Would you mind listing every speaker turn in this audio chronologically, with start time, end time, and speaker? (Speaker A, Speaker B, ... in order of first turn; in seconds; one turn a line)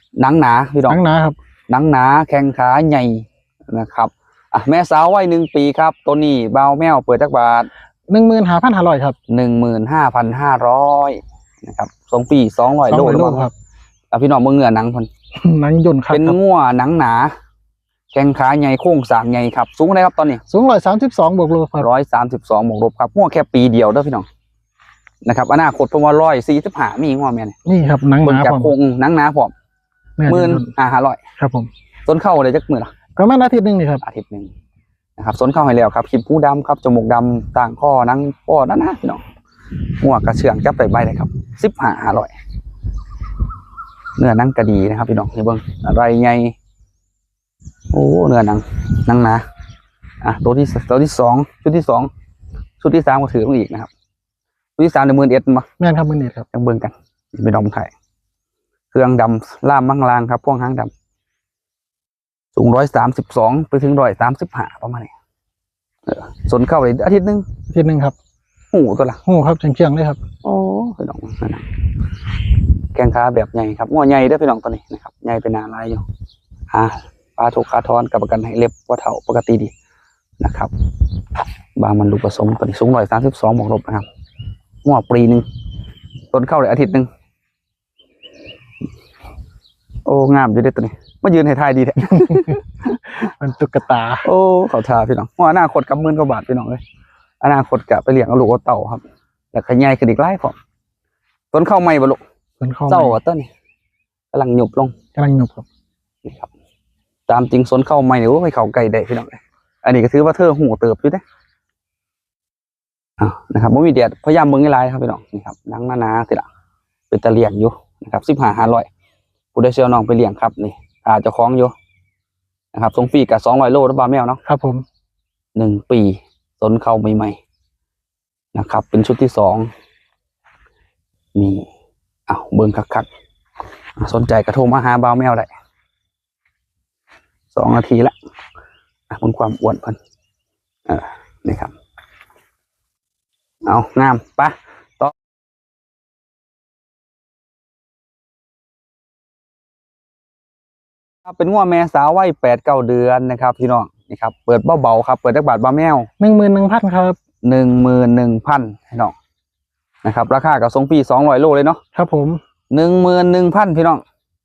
Speaker A: 0.2-1.0
Speaker B: 0.9-1.4
Speaker A: 1.7-7.7
Speaker B: 8.1-9.2
Speaker A: 9.3-13.5
Speaker B: 12.9-13.5
Speaker A: 14.1-15.1
Speaker B: 15.3-16.4
Speaker A: 16.1-17.3
Speaker A: 18.1-20.4
Speaker B: 20.4-21.9
Speaker A: 21.8-24.2
Speaker A: 25.2-27.6
Speaker B: 27.6-28.7
Speaker A: 28.2-29.5
Speaker B: 30.2-30.7
Speaker A: 30.3-31.2
Speaker B: 31.4-31.7
Speaker A: 32.0-32.9
Speaker B: 33.1-34.0
Speaker A: 34.0-34.5
Speaker A: 35.2-39.2
Speaker A: 40.0-42.3
Speaker A: 44.2-46.5
Speaker A: 47.9-49.4
Speaker A: 50.2-52.1
Speaker A: 52.8-53.9
Speaker A: 54.8-55.6
Speaker B: 55.8-56.5
Speaker A: 56.5-57.9
Speaker A: 58.9-60.9
Speaker A: 62.5-65.1
Speaker A: 66.1-67.4
Speaker B: 67.7-68.1
Speaker A: 68.7-69.2
Speaker B: 69.2-70.2
Speaker A: 70.4-71.6
Speaker A: 72.9-76.0
Speaker A: 76.7-79.7
Speaker A: 80.4-80.7
Speaker A: 81.8-84.0
Speaker A: 84.8-85.4
Speaker A: 86.3-87.1
Speaker A: 90.0-93.3
Speaker B: 93.2-94.3
Speaker A: 94.2-96.8
Speaker A: 97.4-100.5
Speaker A: 101.5-102.2
Speaker B: 102.6-103.2
Speaker A: 102.9-103.5
Speaker A: 104.3-104.9
Speaker B: 105.2-105.7
Speaker A: 106.2-106.5
Speaker A: 107.3-111.2
Speaker A: 113.2-116.5
Speaker A: 117.1-118.9
Speaker A: 119.5-121.7
Speaker A: 122.7-124.4
Speaker B: 124.4-124.8
Speaker A: 125.5-127.4
Speaker A: 128.5-129.7
Speaker A: 131.3-131.7
Speaker A: 132.3-133.1
Speaker A: 134.0-135.5
Speaker A: 137.5-138.1
Speaker A: 139.1-140.0
Speaker A: 140.9-141.7
Speaker A: 143.7-145.1
Speaker A: 151.2-156.1
Speaker B: 156.2-157.2
Speaker A: 157.4-159.1
Speaker A: 160.0-161.8
Speaker B: 161.9-162.4
Speaker A: 162.7-164.0